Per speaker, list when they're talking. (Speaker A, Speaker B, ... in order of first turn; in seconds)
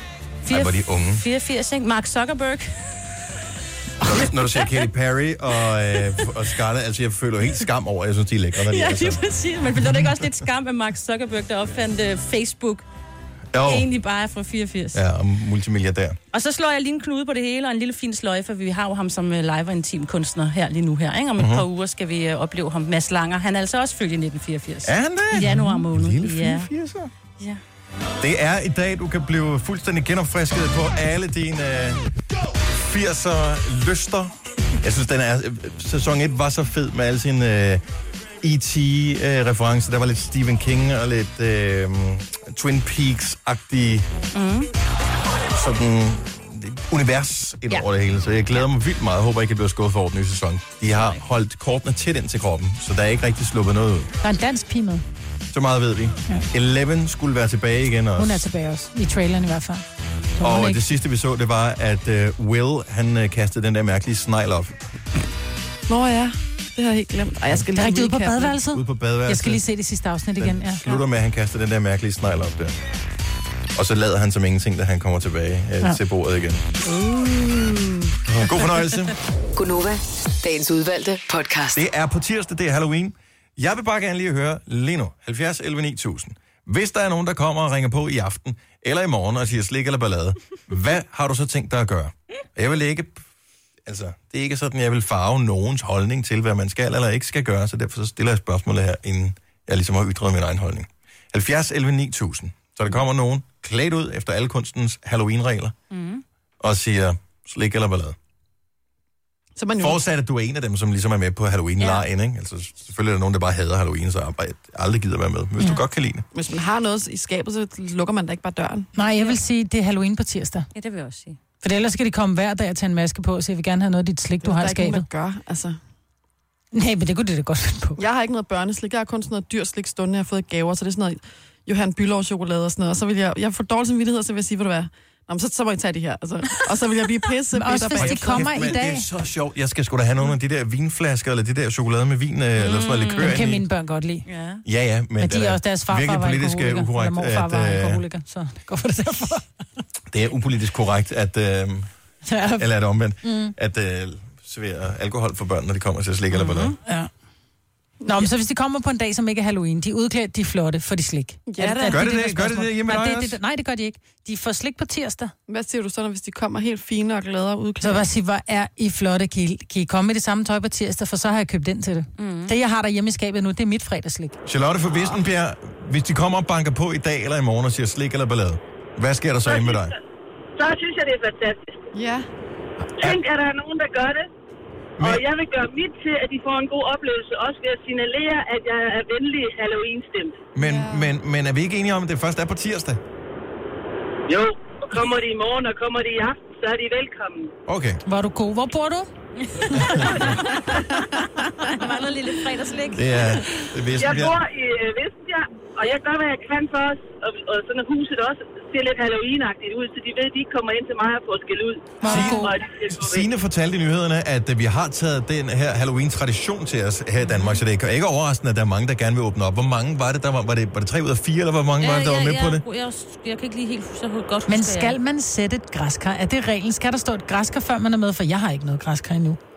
Speaker A: 0.4-3.4, 4.0-4.8, 8.6-12.8, 13.6-15.0, 16.3-26.7, 44.3-44.7, 50.9-51.2, 105.9-106.2, 111.8-112.0, 120.7-121.4, 142.6-143.3, 144.2-144.6, 156.3-156.8, 172.2-172.5, 199.4-203.7, 221.8-225.0
Speaker B: 0.5-1.2, 4.0-9.2, 13.5-13.9, 14.9-16.2, 21.4-21.6, 24.8-27.1, 28.2-32.0, 32.6-37.8, 38.4-44.1, 45.3-54.1, 55.5-58.5, 60.4-64.8, 68.7-69.6, 70.4-72.8, 73.7-76.6, 78.2-79.2, 81.7-93.2, 93.8-105.7, 106.6-108.2, 109.8-116.2, 138.0-143.6, 144.6-148.0, 150.1-151.9, 152.6-156.7, 161.8-163.4, 174.4-179.9, 182.8-183.2, 185.0-185.2, 190.5-193.0, 197.7-198.0, 199.7-200.2, 202.9-204.4, 212.0-222.6
Speaker C: 54.2-55.0, 58.1-59.8, 60.4-60.9, 67.7-71.0, 118.9-120.7, 121.6-125.1, 126.7-128.0, 137.5-139.1, 143.2-144.2, 145.2-149.5, 152.2-152.7, 153.2-153.5, 156.8-157.1, 158.1-165.3, 167.8-174.3, 198.1-199.1, 212.0-212.5, 224.5-229.4
Speaker D: 65.9-68.6, 109.6-110.0, 116.3-118.9, 124.4-125.8, 128.0-138.5, 161.5-162.1, 165.5-168.1, 181.9-182.3, 190.6-191.1
Speaker E: 79.5-81.8
Speaker F: 179.4-179.9, 180.6-181.9, 183.0-184.3, 185.0-190.4, 194.3-197.5, 204.0-213.3